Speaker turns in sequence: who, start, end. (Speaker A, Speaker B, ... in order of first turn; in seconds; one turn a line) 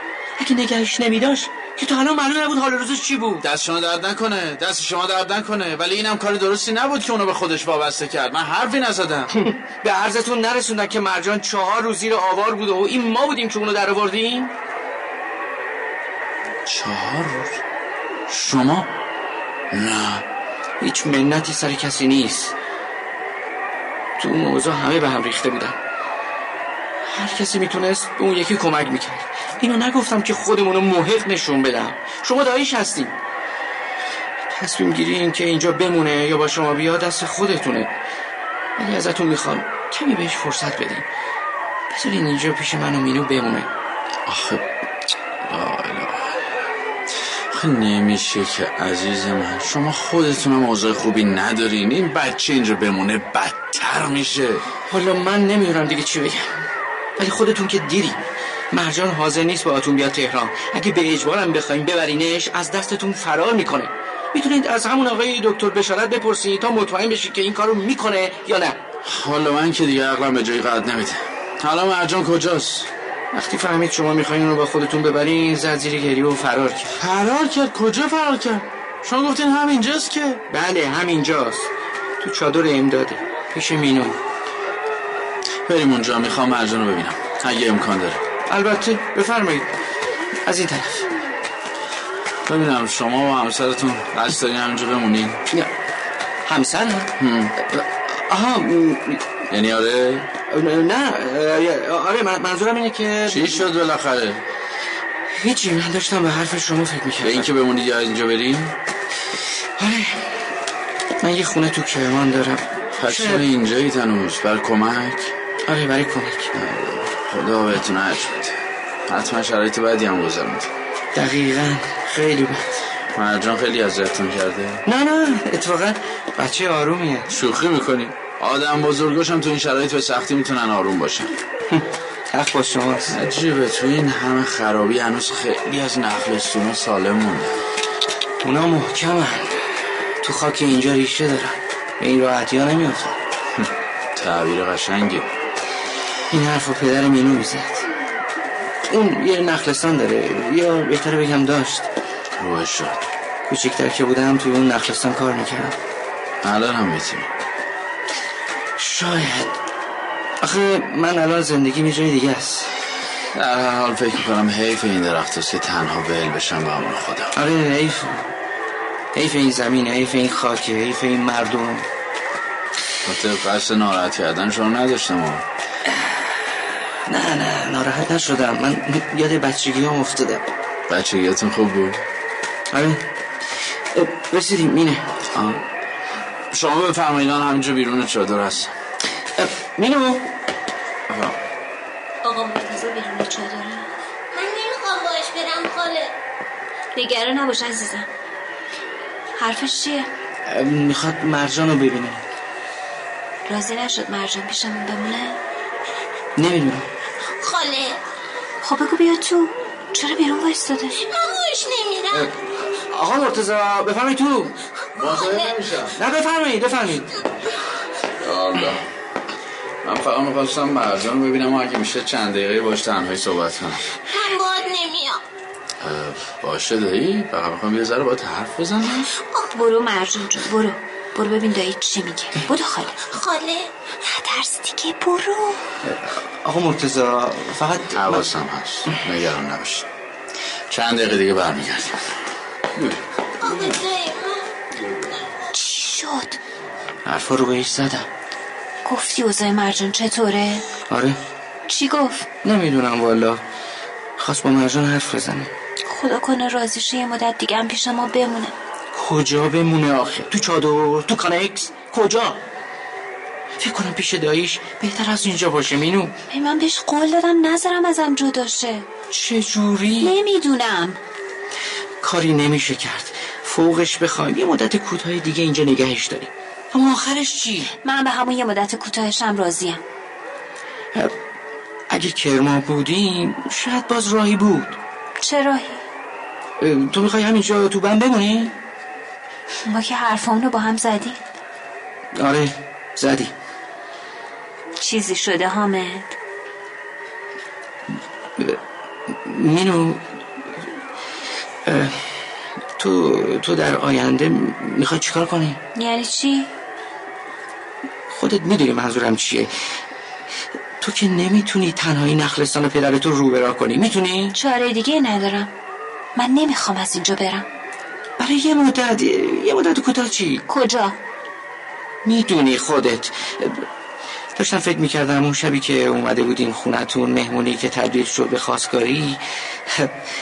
Speaker A: 0.4-3.4
Speaker B: 3.4-9.3
Speaker A: 9.3-14.6
Speaker B: 16.6-17.6
Speaker B: 18.3-18.9
Speaker B: 19.7-20.2
Speaker A: 20.8-22.5
Speaker A: 24.2-25.8
Speaker A: 27.0-33.2
Speaker A: 34.5-37.9
Speaker A: 38.8-41.1
Speaker A: 41.9-43.7
Speaker B: 44.2-44.6
Speaker B: 45.4-46.4
Speaker B: 47.5-54.6
Speaker A: 54.9-56.5
Speaker A: 57.2-68.8
Speaker B: 69.0-72.9
Speaker A: 73.3-76.9
Speaker B: 77.0-80.4
Speaker A: 80.5-81.7
Speaker A: 82.2-84.2
Speaker B: 85.7-88.2
Speaker A: 88.5-89.7
Speaker A: 90.4-91.0
Speaker B: 92.5-95.4
Speaker A: 96.5-99.3
Speaker B: 97.2-97.6
Speaker B: 99.5-100.3
Speaker A: 100.5-103.7
Speaker B: 103.3-104.4
Speaker A: 105.4-107.5
Speaker B: 107.2-108.8
Speaker A: 109.8-110.4
Speaker A: 111.2-113.4
Speaker B: 113.0-115.3
Speaker A: 115.7-116.5
Speaker B: 116.5-118.5
Speaker B: 119.1-120.7
Speaker A: 121.1-122.6
Speaker B: 123.1-124.8
Speaker A: 124.9-127.3
Speaker B: 127.3-131.3
Speaker A: 131.7-133.1
Speaker B: 133.1-137.6
Speaker A: 138.4-139.5
Speaker A: 140.2-143.2
Speaker B: 144.1-145.3
Speaker A: 146.3-147.8
Speaker A: 148.9-151.9
Speaker B: 152.3-153.0
Speaker A: 153.5-155.8
Speaker B: 156.4-157.3
Speaker A: 158.8-159.5
Speaker A: 160.4-162.7
Speaker B: 163.3-167.3
Speaker A: 167.3-168.3
Speaker A: 169.1-171.8
Speaker B: 173.0-175.4
Speaker A: 177.1-180.5
Speaker B: 180.9-182.0
Speaker A: 182.7-183.0
Speaker A: 183.9-185.2
Speaker B: 185.3-185.6
Speaker B: 186.5-188.7
Speaker A: 189.4-190.3
Speaker B: 191.1-191.4
Speaker C: 192.2-193.9
Speaker D: 194.3-196.1
Speaker C: 196.9-198.1
Speaker C: 199.3-200.1
Speaker A: 200.5-202.2
Speaker C: 203.5-205.4
Speaker A: 206.3-206.8
Speaker D: 207.4-208.0
Speaker C: 208.6-211.0
Speaker D: 210.9-212.3
Speaker A: 212.1-214.6
Speaker B: 214.9-216.0
Speaker D: 215.1-215.5
Speaker A: 215.9-217.1
Speaker B: 218.2-218.8
Speaker B: 219.8-223.9
Speaker D: 224.1-225.2
Speaker B: 225.8-229.1
Speaker D: 229.2-229.5
Speaker C: 229.5-233.0
Speaker D: 233.1-233.7
Speaker C: 234.0-235.7
Speaker A: 235.8-238.3
Speaker B: 237.9-239.9
Speaker B: 240.7-242.1
Speaker D: 243.4-244.4
Speaker C: 245.5-246.4
Speaker A: 247.0-248.1
Speaker C: 248.8-250.7
Speaker A: 250.9-251.2
Speaker C: 251.7-252.3
Speaker A: 252.4-253.4
Speaker A: 254.2-255.5
Speaker C: 255.8-258.5
Speaker A: 258.9-262.4
Speaker A: 263.6-266.1
Speaker C: 266.3-268.9
Speaker A: 269.1-270.1
Speaker C: 270.0-271.0
Speaker A: 272.0-277.7
Speaker C: 277.8-279.8
Speaker A: 281.9-284.8
Speaker C: 285.2-285.8
Speaker A: 286.6-288.5
Speaker C: 289.6-291.2
Speaker A: 292.2-293.3
Speaker C: 294.8-296.1
Speaker A: 299.1-300.0
Speaker A: 301.6-302.1
Speaker A: 302.8-305.6
Speaker C: 305.7-306.5
Speaker A: 308.1-309.5
Speaker A: 310.8-314.4
Speaker C: 314.3-315.5
Speaker C: 316.1-317.4
Speaker A: 318.2-320.4
Speaker C: 320.5-321.0
Speaker A: 322.0-323.6
Speaker A: 324.4-329.9